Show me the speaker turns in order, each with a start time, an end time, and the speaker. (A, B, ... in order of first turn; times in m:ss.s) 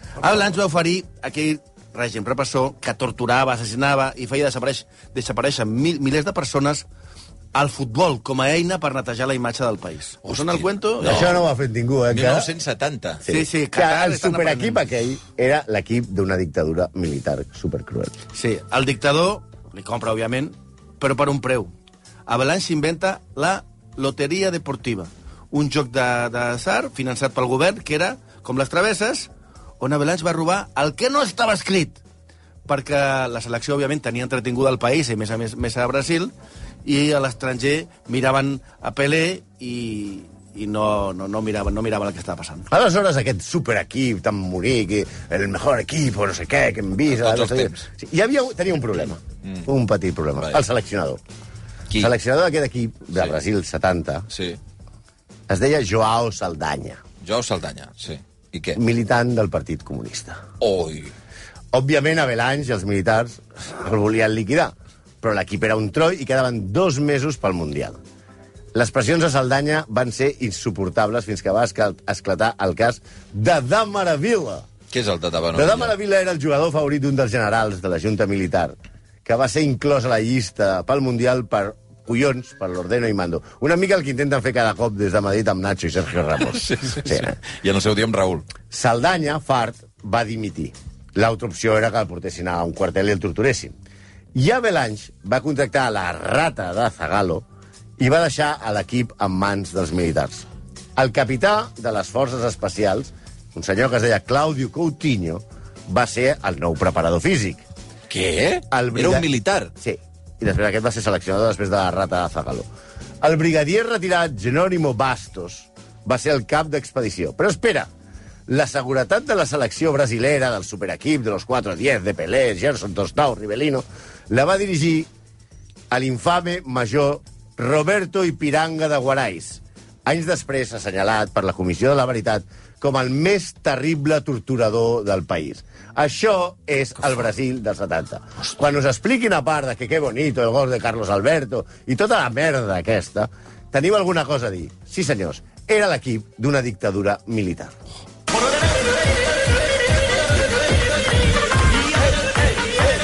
0:00.2-0:06.8 A
0:07.5-0:11.3 A
0:10.3-0:11.4 B
0:11.0-0:12.5 C
0:12.1-0:13.2 B
0:13.2-0:18.1 C
0:13.3-0:14.8 A
0:18.3-0:21.7 A
0:22.3-0:32.0 A
0:32.7-0:36.3 A
0:36.8-0:42.7 A
0:42.7-0:51.2 C
0:47.1-0:47.8 B
0:51.9-0:54.3 C
0:54.3-0:54.6 B
0:55.5-0:57.0 C
0:57.2-0:58.8 B
0:58.7-1:00.4 C
1:00.6-1:01.1 B
1:01.7-1:08.0 C
1:08.7-1:14.7 C
1:14.9-1:15.9 B
1:15.5-1:27.4 C
1:26.5-1:28.5 B
1:28.7-1:33.8 C
1:34.3-1:37.4 C
1:38.0-1:47.6 C
1:48.1-1:49.7 B
1:48.7-1:52.7 C
1:53.2-1:57.9 C
1:58.5-2:05.1 C
2:05.9-2:27.8 C